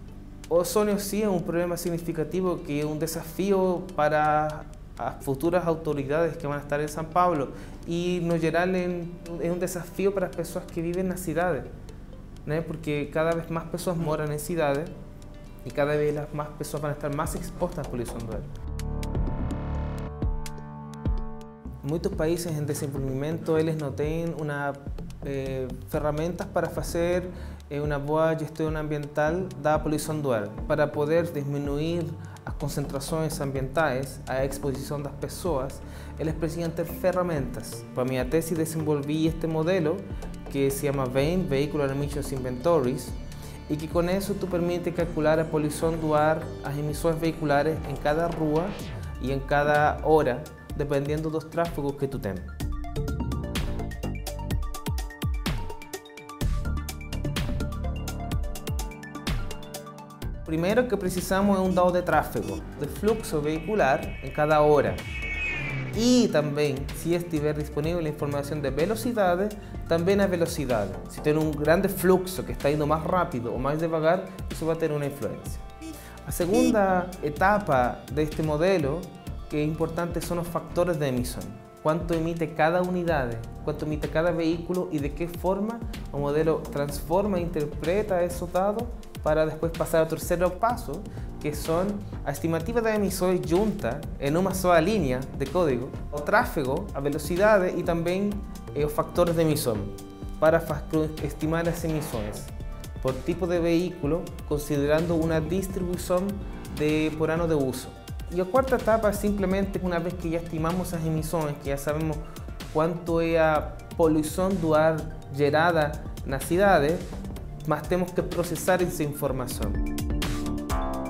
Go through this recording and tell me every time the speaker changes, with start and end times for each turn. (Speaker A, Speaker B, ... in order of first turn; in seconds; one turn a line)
Speaker A: 0.5-11.7
Speaker A: 12.4-14.9
Speaker A: 15.6-18.5
Speaker A: 21.8-52.5
Speaker A: 60.5-65.0
Speaker A: 65.9-75.6
Speaker A: 76.2-117.1
Speaker A: 117.6-119.8